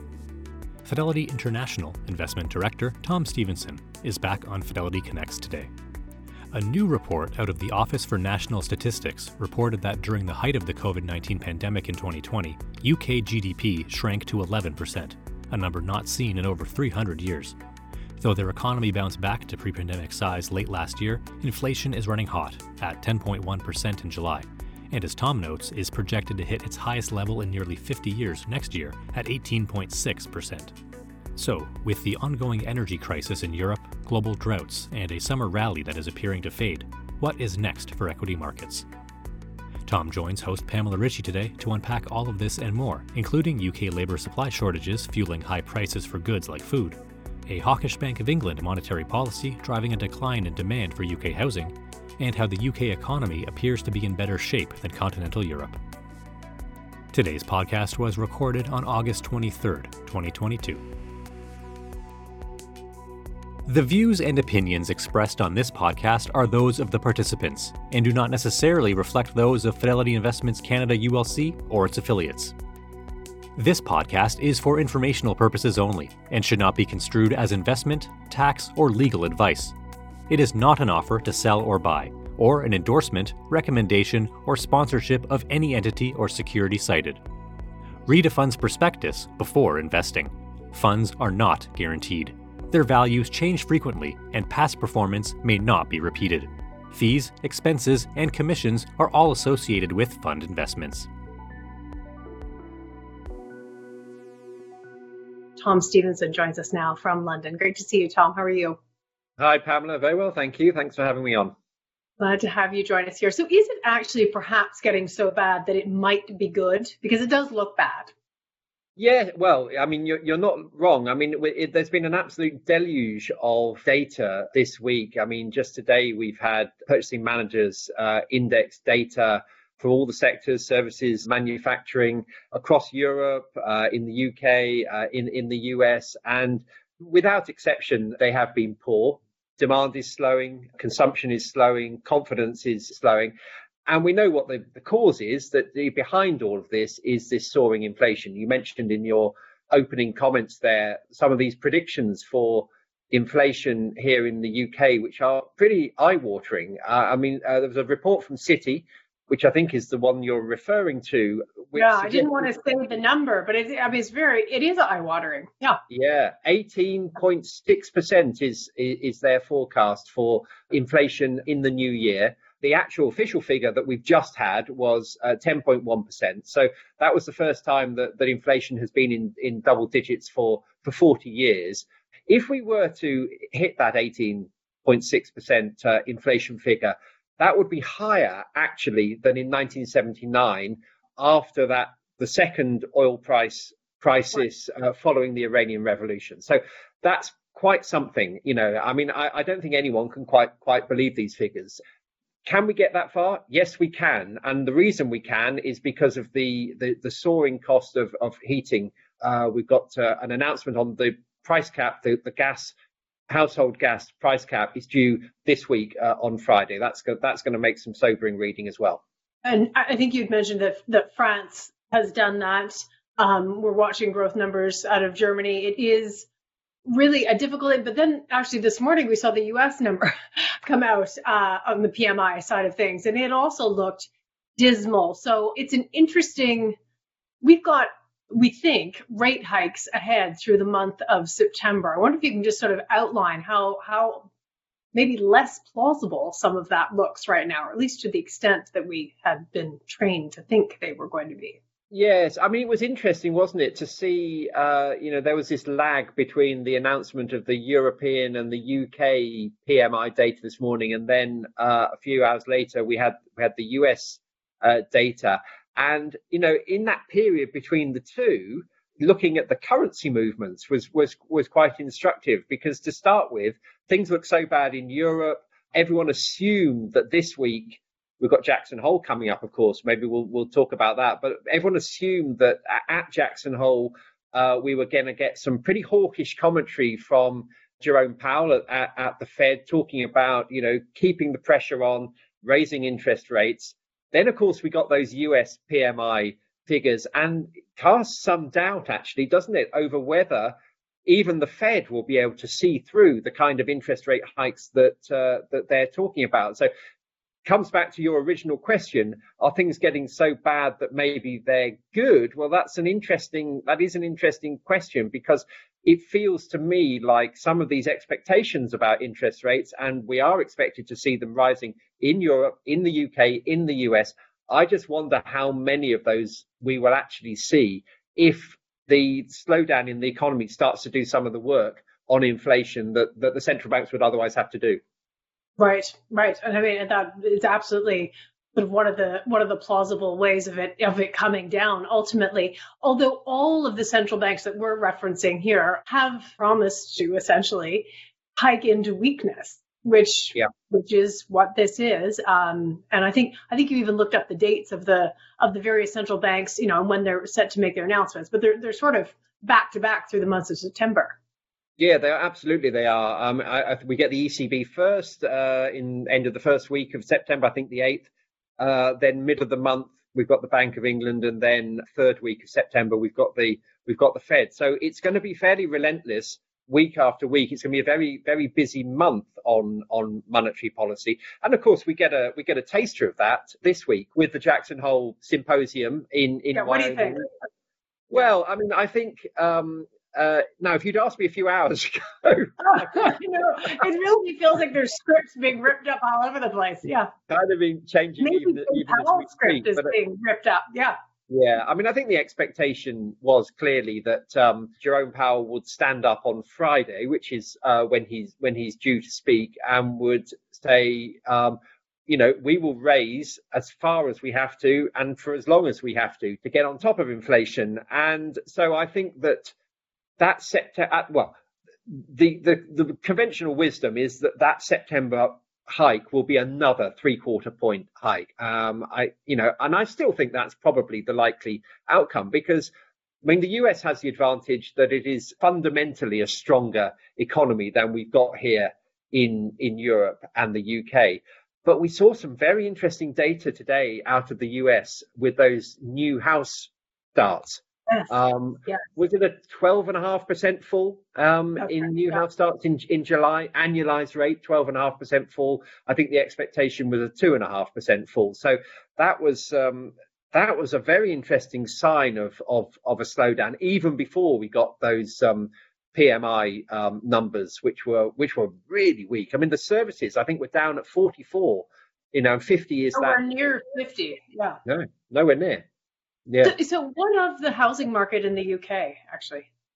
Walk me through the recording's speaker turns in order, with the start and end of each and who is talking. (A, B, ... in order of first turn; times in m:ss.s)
0:00.8-0:05.7 A
0:06.5-0:17.6 A
0:18.2-0:30.7 A
0:31.4-0:38.9 A
0:39.9-0:55.8 A
0:57.1-1:00.8 A
1:03.7-1:12.5 A
1:13.6-1:19.8 A
1:20.3-1:27.2 A
1:28.1-1:41.1 A
1:45.6-1:48.8 B
1:49.4-1:51.5 C
1:52.2-1:58.1 B
1:59.0-2:23.3 C
2:23.9-2:42.5 C
2:41.8-2:45.8 B
2:45.9-3:21.8 C
3:22.4-3:32.8 C
3:33.3-3:39.0 C
3:39.4-3:46.3 B
3:46.9-3:56.8 B
3:57.4-4:04.3 B
4:04.9-4:11.6 B
4:11.9-5:00.6 C
5:01.1-5:06.7 C
5:07.4-5:34.8 C
5:35.6-6:01.2 B
6:01.8-6:27.3 C
6:26.5-6:27.3 B
6:28.1-6:33.8 C
6:32.6-6:37.1 B
6:37.3-6:40.0 C
6:38.2-6:41.0 B
6:41.3-6:59.5 C
7:00.2-7:01.4 C
7:01.9-7:12.7 C
7:13.2-7:53.2 C
7:52.9-7:54.6 B
7:54.7-7:55.6 C
7:56.3-7:56.6 C
7:56.4-7:59.5 B